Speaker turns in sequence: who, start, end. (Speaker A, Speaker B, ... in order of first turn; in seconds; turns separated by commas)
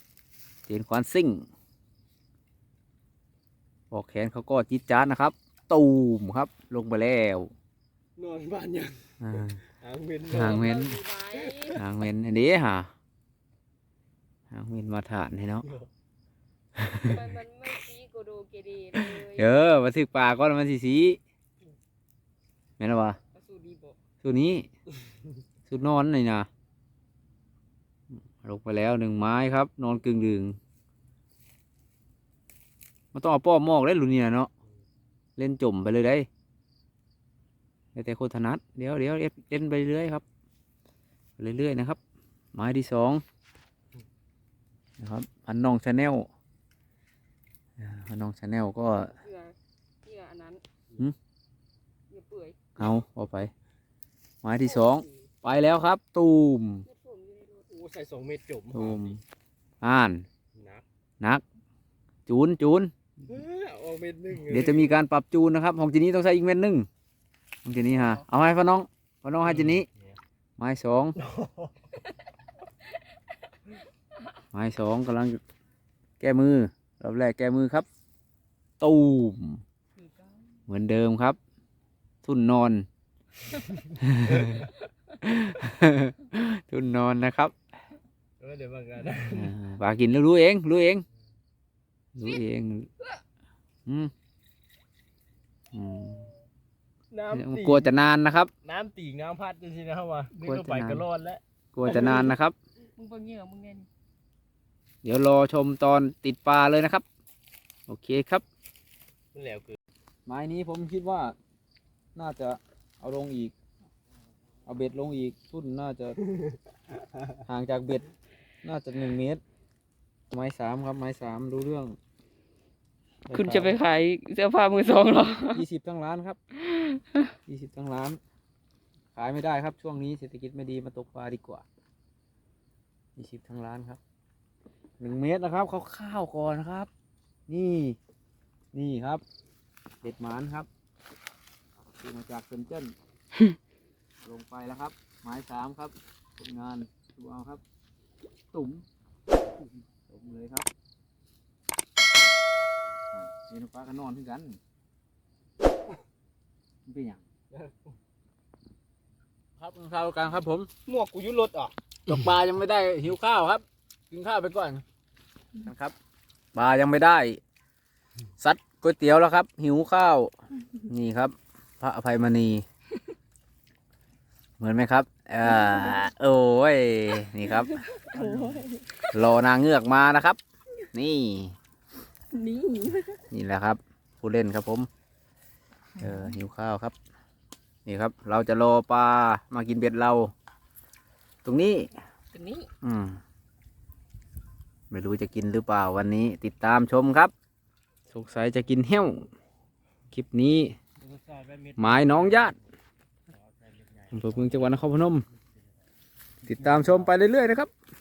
Speaker A: 0.7-1.5, Speaker A: 3.9-7.5, Speaker B: 8.2-10.7, Speaker A: 9.2-9.6, Speaker A: 10.3-11.0, Speaker C: 10.3-11.8, Speaker B: 11.3-11.8, Speaker A: 11.8-12.9, Speaker A: 14.5-15.7, Speaker B: 15.6-15.9, Speaker A: 16.8-17.2, Speaker C: 17.0-19.8, Speaker A: 18.9-21.2, Speaker A: 22.8-23.2, Speaker C: 23.3-24.0, Speaker A: 24.2-24.7, Speaker A: 25.7-26.5, Speaker A: 28.3-30.6, Speaker A: 33.1-34.5, Speaker A: 35.4-36.3, Speaker A: 38.0-40.2, Speaker A: 41.4-42.0, Speaker A: 42.5-43.2, Speaker A: 45.0-46.3, Speaker A: 47.8-49.2, Speaker C: 49.0-50.6, Speaker C: 52.1-52.7, Speaker A: 52.8-53.5, Speaker A: 54.4-56.9, Speaker C: 54.6-55.1, Speaker C: 56.9-57.7, Speaker B: 57.7-59.2, Speaker A: 58.7-59.2, Speaker A: 59.8-60.2, Speaker B: 60.5-60.8, Speaker A: 62.3-62.9, Speaker B: 63.3-65.0, Speaker A: 64.5-66.9, Speaker A: 67.7-69.9, Speaker B: 69.4-70.2, Speaker A: 70.6-71.2, Speaker B: 71.2-71.7, Speaker A: 74.5-75.4, Speaker A: 76.2-77.9, Speaker A: 78.8-79.6, Speaker C: 80.0-80.6, Speaker A: 80.7-81.4, Speaker A: 82.2-82.9, Speaker A: 84.0-84.7, Speaker B: 84.3-84.5, Speaker A: 85.2-87.5, Speaker B: 88.4-89.5, Speaker A: 89.3-91.0, Speaker A: 92.2-92.9, Speaker A: 93.9-94.1, Speaker A: 95.7-96.3, Speaker B: 97.1-97.9, Speaker A: 97.3-98.5, Speaker B: 98.6-102.3, Speaker A: 100.4-101.1, Speaker A: 101.7-102.5, Speaker C: 103.0-103.9, Speaker A: 105.0-107.0, Speaker A: 107.9-108.4, Speaker B: 109.3-109.8, Speaker A: 110.3-111.4, Speaker A: 112.2-113.5, Speaker A: 114.7-116.2, Speaker A: 117.5-118.0, Speaker A: 118.6-119.4, Speaker A: 120.3-122.0, Speaker A: 123.3-123.8, Speaker C: 123.3-125.7, Speaker A: 125.5-126.4, Speaker C: 126.6-127.3, Speaker A: 127.5-128.2, Speaker A: 129.2-131.6, Speaker A: 133.2-134.0, Speaker A: 135.0-136.9, Speaker A: 137.5-138.0, Speaker A: 138.7-139.2, Speaker A: 140.0-140.7, Speaker A: 142.0-142.9, Speaker A: 144.2-147.6, Speaker A: 148.5-148.8, Speaker A: 149.6-150.7, Speaker A: 153.1-154.6, Speaker A: 156.9-157.2, Speaker A: 159.6-160.7, Speaker C: 160.9-161.7, Speaker A: 162.1-164.8, Speaker A: 165.6-165.9, Speaker A: 166.5-167.4, Speaker A: 168.4-170.3, Speaker A: 170.9-172.7, Speaker A: 174.6-177.8, Speaker C: 175.5-176.0, Speaker C: 177.8-179.1, Speaker B: 178.1-178.7, Speaker A: 179.1-180.4, Speaker A: 180.9-181.6, Speaker C: 182.3-183.2, Speaker A: 183.3-184.9, Speaker A: 186.0-186.9, Speaker A: 187.9-190.3, Speaker A: 191.4-191.9, Speaker C: 192.3-192.7, Speaker A: 192.8-193.2, Speaker A: 194.9-197.3, Speaker A: 198.1-199.3, Speaker A: 200.1-200.8, Speaker B: 201.0-202.7, Speaker A: 201.8-202.6, Speaker B: 203.3-204.8, Speaker A: 204.1-205.2, Speaker B: 206.4-207.2, Speaker A: 206.5-207.7